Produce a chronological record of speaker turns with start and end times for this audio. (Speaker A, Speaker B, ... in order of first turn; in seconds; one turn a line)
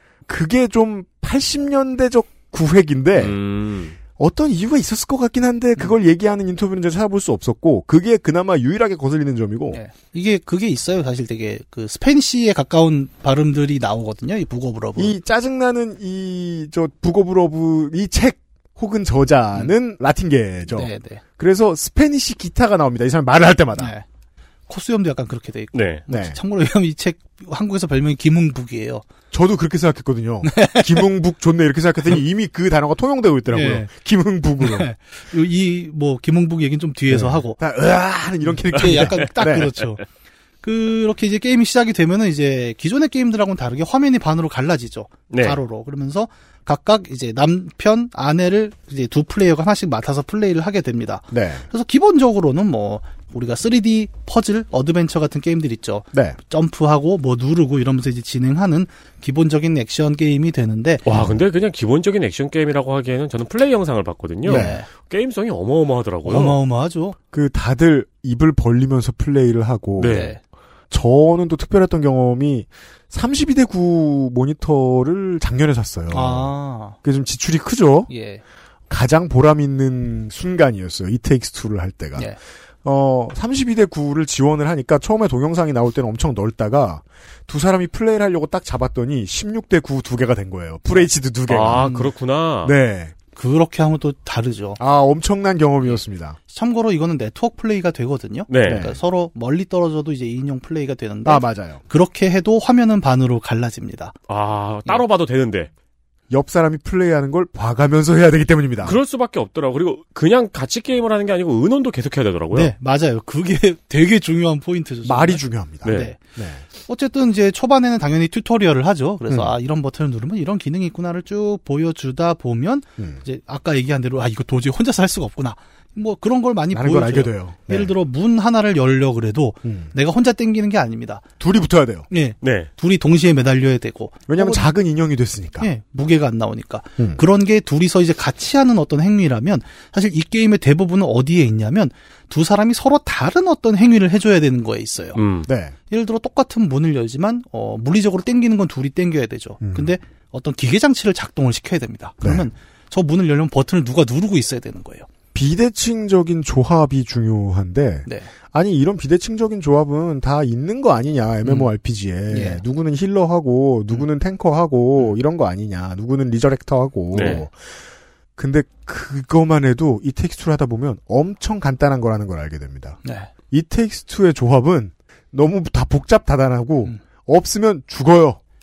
Speaker A: 0.3-3.4
Speaker B: 3.2-4.0
Speaker A: 4.2-9.8
Speaker C: 9.7-15.1
Speaker A: 15.0-23.9
Speaker C: 20.7-21.2
Speaker C: 23.8-24.1
Speaker C: 24.7-29.1
Speaker B: 25.7-26.1
Speaker A: 26.1-26.4
Speaker A: 29.3-34.9
Speaker C: 30.4-31.1
Speaker C: 33.5-33.9
Speaker C: 34.6-37.6
Speaker A: 37.1-39.8
Speaker C: 38.5-40.0
Speaker C: 40.6-61.0
Speaker B: 45.3-45.6
Speaker A: 51.3-51.7
Speaker A: 56.1-56.4
Speaker B: 61.0-66.6
Speaker C: 64.5-64.9
Speaker A: 64.5-64.8
Speaker C: 66.2-67.2
Speaker A: 67.3-70.2
Speaker B: 70.0-70.4
Speaker C: 70.1-70.4
Speaker A: 70.9-76.5
Speaker C: 76.1-77.0
Speaker A: 77.0-78.1
Speaker C: 78.1-78.4
Speaker A: 78.9-92.1
Speaker B: 91.5-92.7
Speaker A: 92.6-93.1
Speaker C: 93.3-94.8
Speaker A: 94.8-96.4
Speaker C: 96.5-104.2
Speaker B: 98.5-98.9
Speaker A: 98.6-99.0
Speaker A: 101.2-101.8
Speaker B: 104.3-105.7
Speaker A: 106.3-109.0
Speaker B: 108.8-112.7
Speaker C: 112.5-116.2
Speaker A: 115.0-116.6
Speaker B: 115.8-116.1
Speaker C: 116.8-131.2
Speaker A: 126.7-127.9
Speaker A: 129.6-129.9
Speaker A: 131.4-132.1
Speaker C: 132.1-134.6
Speaker B: 132.4-132.7
Speaker A: 134.3-135.7
Speaker C: 135.6-145.2
Speaker B: 145.1-145.5
Speaker A: 145.4-145.8
Speaker C: 145.9-155.1
Speaker A: 149.6-149.9
Speaker A: 155.3-167.5
Speaker C: 161.4-161.7
Speaker C: 162.3-162.6
Speaker B: 167.1-167.4
Speaker C: 167.2-167.4
Speaker A: 168.4-178.4
Speaker C: 173.0-173.3